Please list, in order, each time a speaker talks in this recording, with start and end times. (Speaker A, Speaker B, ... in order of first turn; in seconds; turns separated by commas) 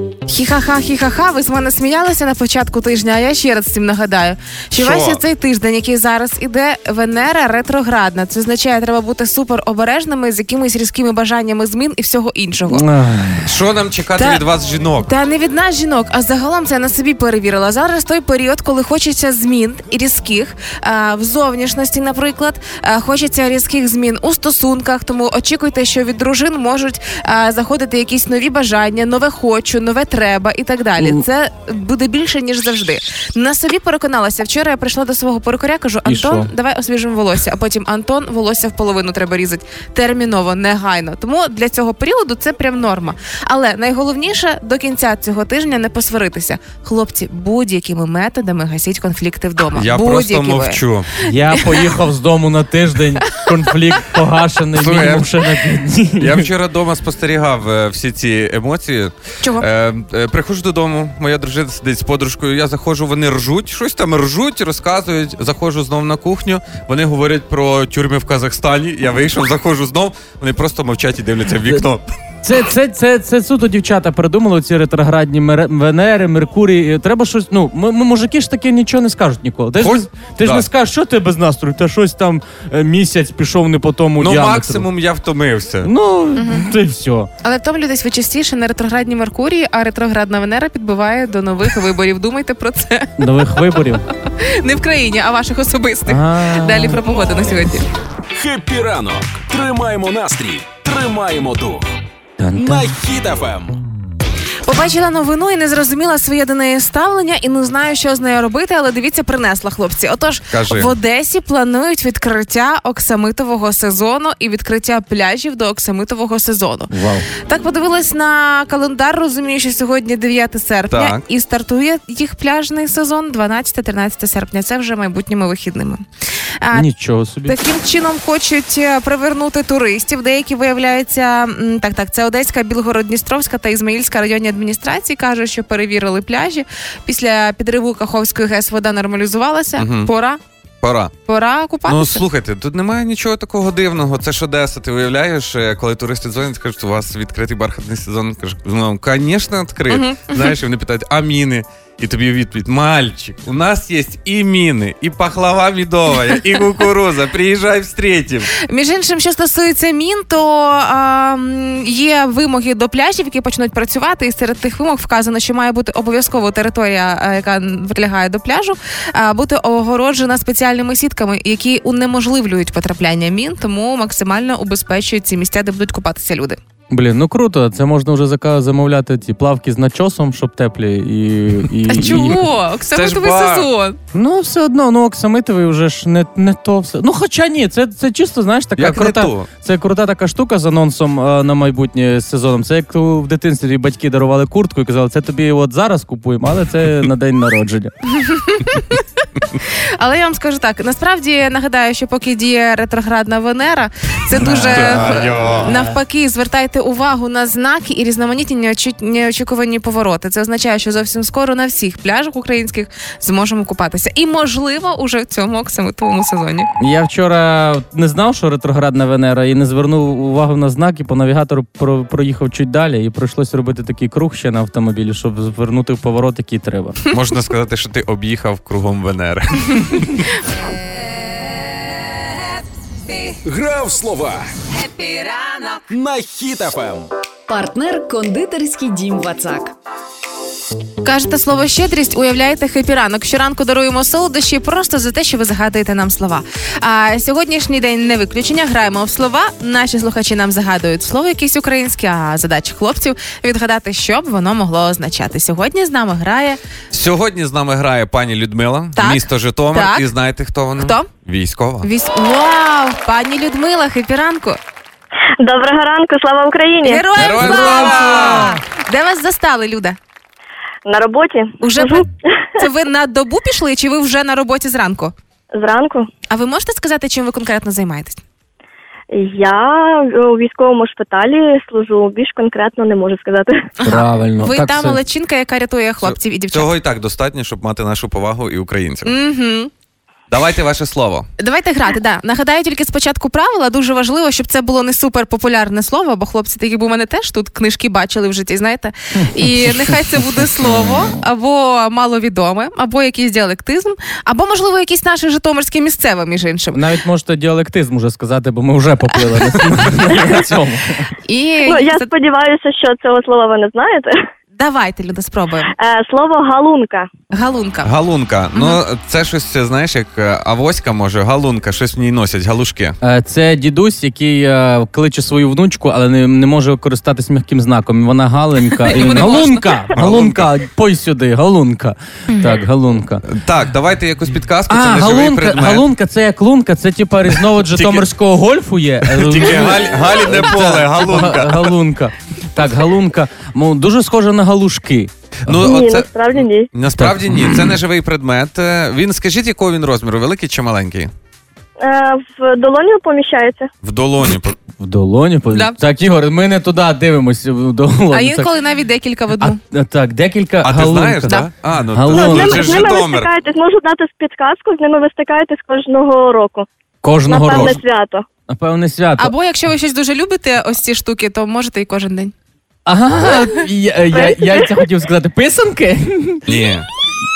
Speaker A: 0.3-12.8, Speaker B: 4.7-5.2, Speaker C: 12.7-13.5, Speaker B: 13.4-15.1, Speaker A: 14.2-14.4, Speaker A: 15.0-51.8, Speaker C: 36.0-36.5, Speaker B: 49.7-51.1, Speaker C: 51.3-56.5, Speaker B: 54.8-55.4, Speaker B: 56.2-72.1, Speaker A: 59.4-59.7, Speaker C: 72.4-84.8, Speaker B: 79.8-80.7, Speaker B: 84.2-85.9, Speaker C: 85.8-87.3, Speaker A: 86.3-86.7, Speaker A: 87.4-97.8, Speaker C: 93.2-94.0, Speaker C: 96.1-97.0, Speaker D: 98.3-101.9, Speaker C: 102.4-102.8, Speaker D: 102.6-103.8, Speaker A: 104.7-126.0, Speaker B: 110.5-110.9, Speaker C: 116.9-117.3, Speaker B: 120.9-121.2, Speaker A: 126.6-126.9, Speaker C: 126.7-127.6, Speaker A: 127.5-140.4, Speaker B: 139.8-140.1, Speaker B: 140.8-141.1, Speaker A: 141.3-142.2, Speaker B: 141.8-158.5, Speaker A: 149.9-150.6, Speaker A: 158.7-176.6, Speaker C: 176.9-182.4, Speaker A: 181.9-184.0, Speaker B: 182.9-183.7, Speaker C: 184.1-197.9, Speaker B: 188.8-189.5, Speaker A: 198.1-199.0, Speaker A: 199.7-216.7, Speaker B: 204.3-205.9, Speaker C: 216.8-227.0, Speaker B: 227.1-230.2, Speaker D: 233.4-237.1, Speaker E: 237.5-239.7, Speaker A: 241.0-256.6, Speaker B: 256.9-261.9, Speaker A: 259.0-260.1, Speaker A: 260.8-261.1, Speaker A: 261.8-264.6, Speaker F: 265.4-267.0, Speaker A: 266.8-270.0, Speaker B: 267.1-268.6, Speaker C: 267.4-268.4, Speaker F: 270.9-272.6, Speaker A: 271.6-275.1, Speaker F: 275.5-276.1, Speaker A: 276.3-278.2, Speaker F: 279.1-283.7, Speaker A: 283.8-286.7, Speaker C: 283.8-285.0, Speaker B: 286.0-289.1, Speaker A: 289.1-289.7, Speaker B: 290.3-291.3, Speaker A: 291.4-306.8, Speaker C: 299.1-299.9, Speaker C: 306.7-311.1, Speaker A: 311.2-312.1, Speaker F: 311.7-314.3, Speaker A: 314.6-315.7, Speaker F: 315.7-317.1, Speaker A: 317.3-317.9, Speaker B: 317.8-323.0, Speaker A: 318.5-318.8, Speaker C: 323.0-333.2, Speaker A: 328.8-329.7, Speaker B: 329.0-329.4, Speaker B: 329.9-330.5, Speaker A: 332.3-332.6, Speaker B: 333.2-335.9, Speaker C: 334.7-345.1, Speaker B: 337.7-338.1, Speaker B: 339.0-341.7, Speaker B: 345.4-351.1, Speaker F: 345.6-346.7, Speaker C: 346.9-347.7, Speaker F: 351.8-353.7, Speaker B: 353.8-354.6, Speaker C: 354.8-358.5, Speaker A: 355.5-355.8, Speaker A: 358.1-359.6, Speaker C: 359.4-361.4, Speaker B: 360.6-363.3, Speaker C: 361.9-362.8, Speaker F: 362.1-366.7, Speaker C: 367.0-367.8, Speaker F: 367.3-368.2, Speaker C: 368.5-369.3, Speaker A: 369.2-372.3, Speaker C: 372.9-376.4, Speaker F: 374.1-374.8, Speaker B: 376.5-376.9